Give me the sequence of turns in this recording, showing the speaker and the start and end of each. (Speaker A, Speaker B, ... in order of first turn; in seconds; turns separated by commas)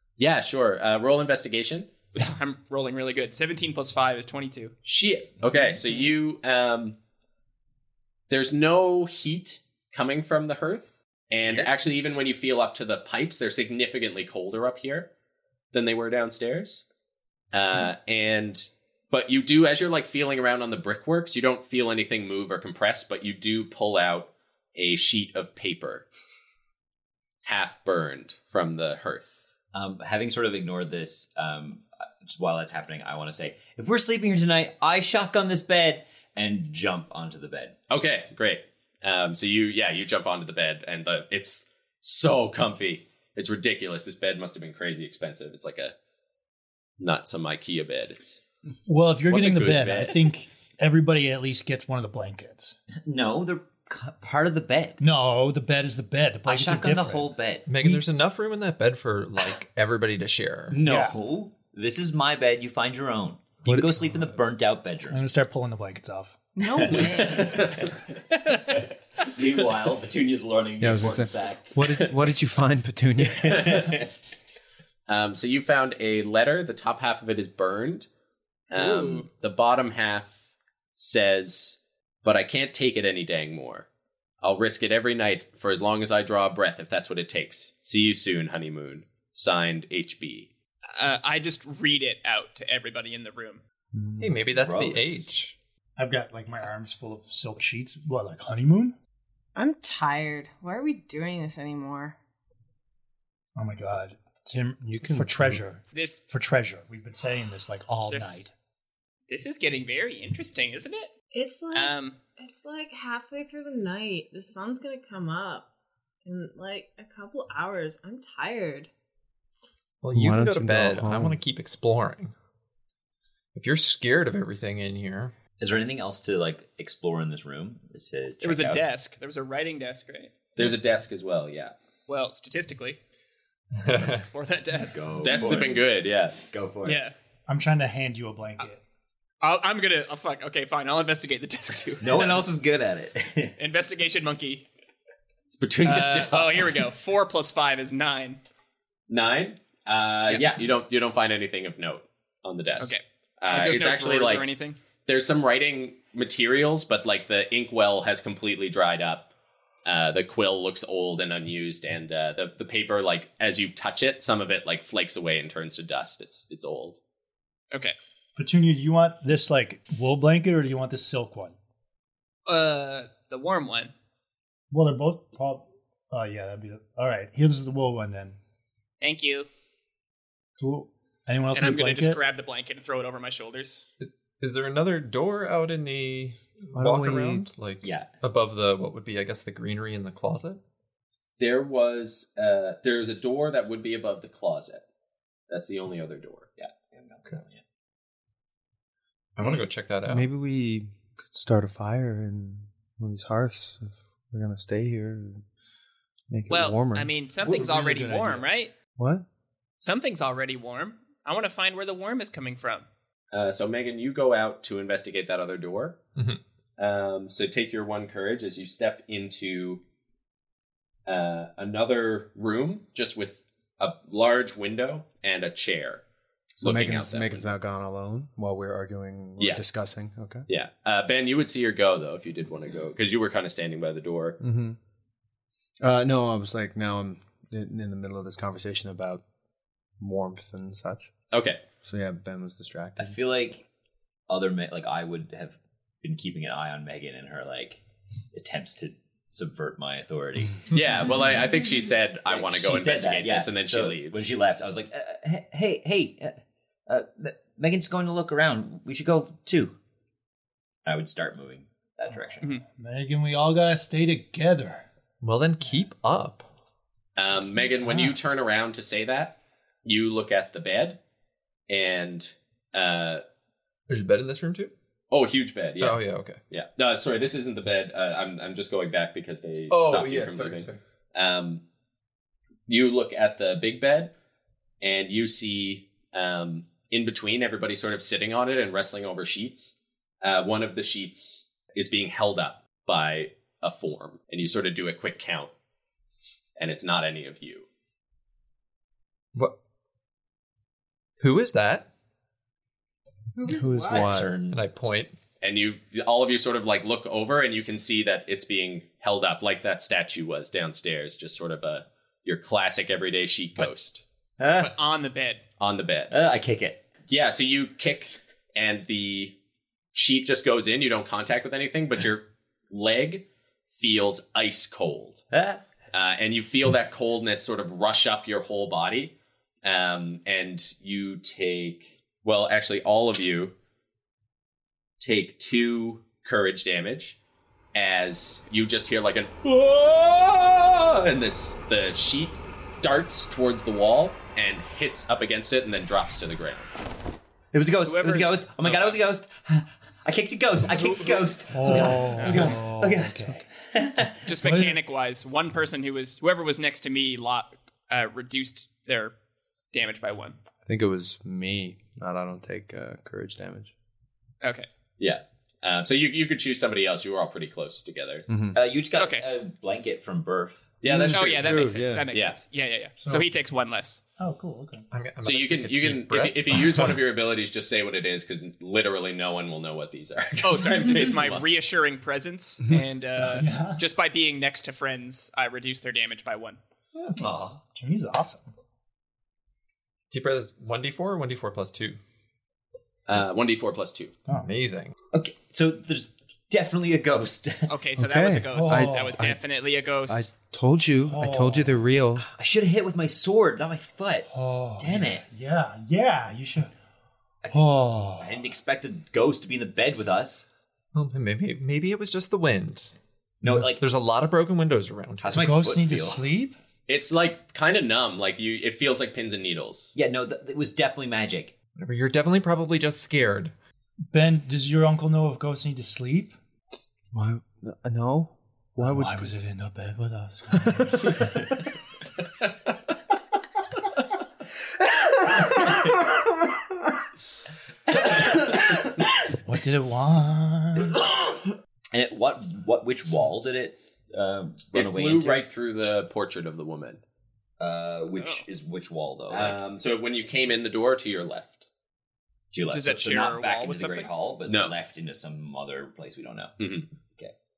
Speaker A: 0.2-1.9, Speaker B: 2.1-4.7, Speaker A: 4.8-7.0, Speaker A: 8.3-15.1, Speaker B: 11.4-11.7, Speaker A: 15.7-16.8, Speaker A: 17.5-26.1, Speaker A: 27.4-29.4, Speaker C: 29.7-37.8, Speaker A: 37.9-45.9, Speaker A: 47.0-48.4, Speaker D: 48.9-52.8, Speaker A: 49.3-50.1, Speaker C: 53.0-55.0, Speaker D: 55.0-58.0, Speaker C: 56.5-58.0, Speaker E: 57.6-60.8, Speaker C: 60.7-65.3, Speaker D: 60.8-61.2, Speaker D: 63.7-64.0, Speaker D: 65.1-66.5, Speaker F: 66.6-67.7, Speaker C: 66.8-72.0, Speaker G: 70.8-73.9, Speaker C: 73.3-74.1, Speaker A: 73.5-73.8, Speaker A: 75.1-78.1, Speaker A: 78.7-80.3, Speaker B: 78.7-79.3, Speaker A: 80.9-83.9, Speaker A: 84.4-90.5, Speaker B: 91.0-93.6, Speaker E: 94.2-95.6, Speaker C: 94.5-95.3, Speaker D: 96.0-99.0, Speaker F: 99.5-102.2, Speaker D: 103.5-108.5, Speaker G: 104.8-105.6, Speaker B: 105.9-106.2, Speaker B: 108.1-108.5, Speaker B: 109.3-111.1, Speaker F: 111.3-115.7, Speaker B: 111.7-112.2, Speaker F: 116.2-118.9, Speaker E: 120.0-122.3, Speaker G: 120.1-121.4, Speaker E: 123.5-125.3, Speaker C: 125.6-128.9, Speaker B: 128.4-130.3, Speaker A: 130.6-131.7, Speaker B: 132.1-133.0, Speaker E: 133.8-134.2, Speaker B: 133.9-135.6, Speaker C: 134.8-135.9, Speaker A: 135.2-136.5, Speaker C: 136.5-137.0, Speaker B: 136.8-137.2, Speaker D: 137.5-138.8, Speaker B: 139.4-142.4, Speaker C: 142.0-143.6, Speaker B: 143.6-144.7, Speaker A: 145.5-146.8, Speaker B: 145.8-148.4, Speaker A: 149.1-154.5, Speaker B: 152.8-154.8, Speaker A: 155.1-159.3, Speaker A: 159.8-167.0, Speaker D: 168.3-171.6, Speaker B: 172.5-173.9, Speaker D: 174.7-178.4, Speaker B: 179.0-179.5, Speaker D: 180.6-182.2, Speaker B: 181.5-183.9, Speaker E: 184.0-190.6, Speaker G: 186.7-187.5, Speaker C: 187.8-188.1, Speaker A: 191.4-194.8, Speaker A: 195.5-196.5, Speaker C: 196.6-197.6, Speaker E: 199.3-200.3, Speaker G: 200.1-205.4, Speaker G: 206.3-207.7, Speaker B: 206.5-208.7, Speaker D: 207.4-208.5, Speaker G: 209.0-209.2, Speaker B: 209.8-212.9, Speaker A: 213.3-216.0, Speaker A: 216.8-219.8, Speaker A: 221.1-226.0, Speaker A: 226.6-227.5, Speaker G: 226.6-230.4, Speaker A: 229.4-229.6, Speaker A: 230.5-234.4, Speaker G: 234.4-234.8, Speaker G: 235.8-239.2, Speaker G: 240.0-241.1, Speaker A: 241.3-241.6, Speaker G: 241.8-243.2, Speaker C: 243.0-243.6, Speaker C: 244.3-247.8, Speaker C: 248.3-251.0, Speaker A: 250.7-254.3, Speaker C: 252.3-259.8, Speaker C: 260.9-262.5, Speaker D: 262.7-264.9, Speaker E: 265.2-266.5, Speaker A: 267.2-271.0, Speaker D: 267.9-268.1, Speaker A: 271.7-273.2, Speaker E: 273.9-274.7, Speaker A: 275.1-281.6, Speaker E: 275.8-276.4, Speaker E: 279.7-280.8, Speaker A: 282.7-284.1, Speaker A: 284.8-295.5, Speaker A: 296.6-297.7, Speaker E: 301.2-301.9, Speaker F: 303.3-304.1, Speaker E: 303.5-305.1, Speaker C: 303.8-304.6, Speaker A: 305.4-314.0, Speaker C: 314.4-314.8, Speaker B: 314.6-315.4, Speaker A: 315.6-316.1, Speaker C: 316.1-316.8, Speaker A: 317.1-319.4, Speaker A: 319.9-325.2, Speaker C: 325.3-325.6, Speaker A: 325.9-333.5, Speaker A: 335.0-337.2, Speaker A: 337.7-346.8, Speaker C: 347.5-354.2, Speaker B: 347.8-349.0, Speaker D: 351.4-353.4, Speaker B: 354.2-359.1, Speaker D: 354.3-354.8, Speaker B: 359.7-360.4, Speaker G: 360.6-363.7, Speaker B: 364.4-364.7, Speaker A: 365.0-368.2, Speaker G: 368.3-368.6, Speaker C: 368.5-370.7, Speaker B: 368.9-369.2, Speaker A: 370.8-372.4, Speaker G: 370.8-372.1, Speaker B: 371.1-374.0, Speaker D: 373.0-373.3, Speaker D: 374.2-374.9, Speaker E: 374.9-377.0, Speaker A: 375.2-381.4, Speaker B: 380.4-386.6, Speaker D: 383.2-383.8, Speaker C: 387.2-387.6, Speaker D: 387.7-388.4, Speaker E: 390.1-392.0, Speaker A: 393.1-394.1, Speaker D: 394.3-394.5, Speaker E: 394.4-394.9, Speaker C: 395.1-397.7, Speaker B: 397.7-400.3, Speaker G: 398.0-399.4, Speaker D: 398.5-399.2, Speaker G: 400.1-402.3, Speaker D: 401.0-401.7, Speaker C: 402.2-405.3, Speaker D: 404.3-406.7, Speaker D: 407.5-407.9, Speaker G: 407.5-408.3, Speaker C: 408.2-410.5, Speaker E: 410.9-412.9, Speaker C: 413.4-413.8, Speaker E: 413.8-415.4, Speaker C: 415.2-416.2, Speaker D: 415.3-416.6, Speaker A: 416.9-419.9, Speaker C: 419.9-421.6, Speaker E: 421.8-423.5, Speaker D: 424.1-426.4, Speaker G: 427.1-429.3, Speaker D: 428.8-431.3, Speaker G: 430.6-431.2, Speaker D: 439.4-441.0, Speaker C: 441.9-445.4, Speaker A: 444.7-447.0, Speaker C: 447.6-449.6, Speaker B: 448.1-448.4, Speaker A: 449.3-451.6, Speaker C: 452.5-457.3, Speaker B: 452.7-454.1, Speaker A: 454.5-454.7, Speaker A: 456.6-456.9